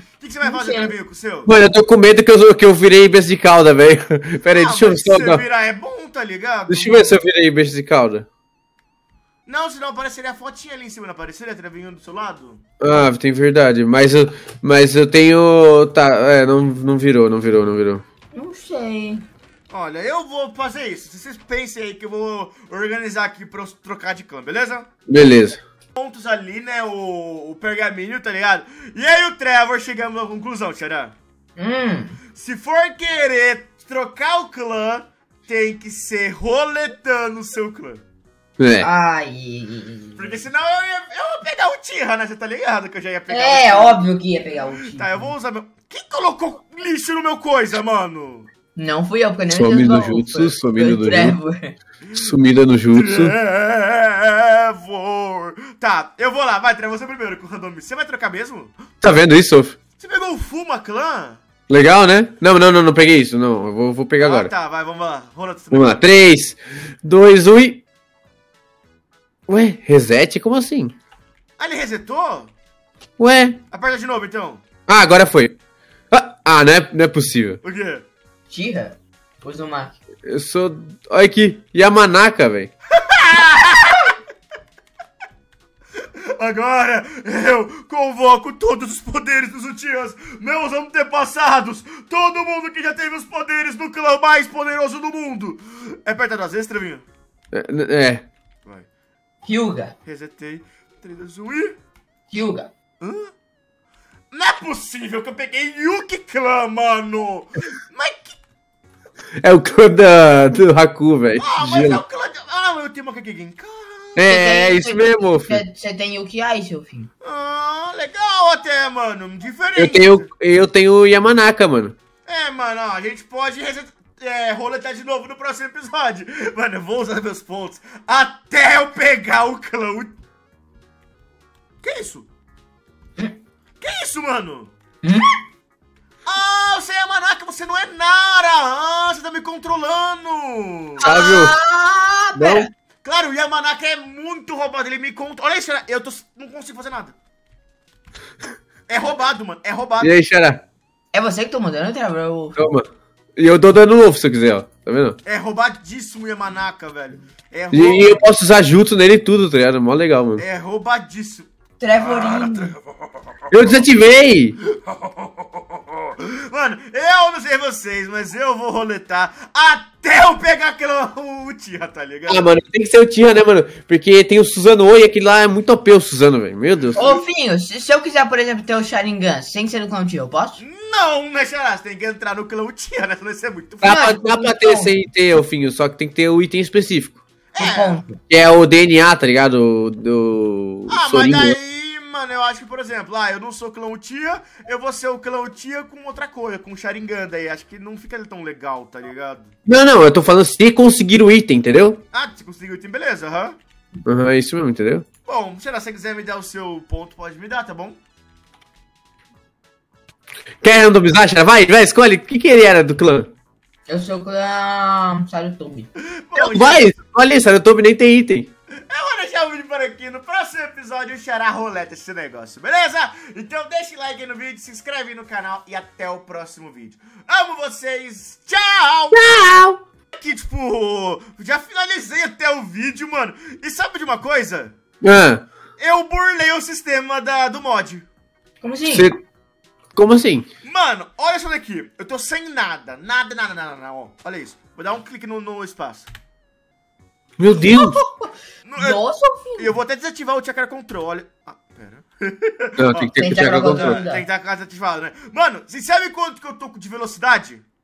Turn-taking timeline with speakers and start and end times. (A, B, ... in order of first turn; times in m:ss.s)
0:00.2-0:01.5 A
0:00.4-0:00.9 B
0:01.4-0:05.4 C
0:04.5-0:07.2 A
0:06.7-0:08.2 C
0:09.4-0:12.6 A
0:12.8-0:18.0 C
0:18.3-0:19.2 B
0:19.7-0:24.9 A
0:25.1-0:25.6 C
0:26.0-0:31.2 A
0:31.6-0:32.2 B
0:32.3-0:38.0 A
0:38.6-0:38.9 C
0:38.8-0:40.4 B
0:40.2-0:44.0 A
0:43.3-0:45.3 B
0:44.8-0:48.5 A
0:48.8-0:51.7 B
0:49.5-0:51.4 C
0:52.1-0:52.3 A
0:52.2-0:53.3 C
0:52.9-0:58.9 A
0:59.0-0:59.8 C
1:00.0-1:01.4 A
1:01.7-1:04.5 C
1:04.2-1:06.1 A
1:05.7-1:07.8 C
1:09.5-1:10.9 C
1:11.6-1:12.5 A
1:13.2-1:13.6 C
1:13.7-1:14.6 A
1:14.9-1:15.6 C
1:16.1-1:17.6 C
1:17.6-1:18.0 A
1:18.5-1:20.0 B
1:20.2-1:22.7 C
1:22.9-1:24.1 A
1:26.2-1:37.0 A
1:37.5-1:38.3 C
1:39.4-1:39.9 B
1:40.0-1:41.8 A
1:42.3-1:42.7 B
1:43.0-1:43.3 A
1:44.3-1:48.4 A
1:49.4-1:52.0 C
1:51.4-1:54.3 A
1:54.2-1:55.6 C
1:54.2-1:57.1 B
1:57.2-2:00.3 A
1:59.8-2:02.0 C
2:02.2-2:10.1 A
2:11.8-2:12.3 A
2:13.8-2:14.7 A
2:15.0-2:15.3 B
2:16.2-2:21.0 A
2:21.0-2:21.5 C
2:21.0-2:22.7 B
2:22.3-2:22.7 C
2:23.0-2:27.1 A
2:28.9-2:30.1 A
2:30.0-2:30.6 C
2:31.1-2:32.6 B
2:32.6-2:35.2 C
2:35.2-2:38.2 A
2:37.7-2:40.4 C
2:40.4-2:41.5 A
2:41.8-2:42.7 B
2:42.0-2:43.8 A
2:43.5-2:44.6 C
2:44.6-2:52.4 A
2:52.3-2:57.0 C
2:56.7-2:57.2 A
2:57.0-3:00.6 B
3:00.6-3:04.2 A
3:03.8-3:07.2 C
3:03.8-3:04.9 B
3:07.5-3:08.0 A
3:07.6-3:08.2 B
3:08.3-3:11.6 C
3:10.9-3:19.5 A
3:19.6-3:22.0 C
3:22.1-3:23.6 A
3:24.0-3:25.0 C
3:25.2-3:28.0 A
3:30.6-3:33.3 C
3:33.9-3:35.9 B
3:36.0-3:36.9 A
3:36.4-3:38.5 C
3:38.9-3:49.2 A
3:49.1-3:49.8 C
3:50.1-3:54.7 A
3:55.0-3:55.4 C
3:55.8-3:58.0 A
3:58.6-3:59.1 B
3:58.9-3:59.2 C
3:59.9-4:00.4 C
4:00.6-4:06.1 A
4:07.4-4:08.0 C
4:07.6-4:09.7 B
4:08.6-4:09.0 A
4:09.6-4:17.6 A
4:12.8-4:14.0 C
4:13.2-4:14.2 B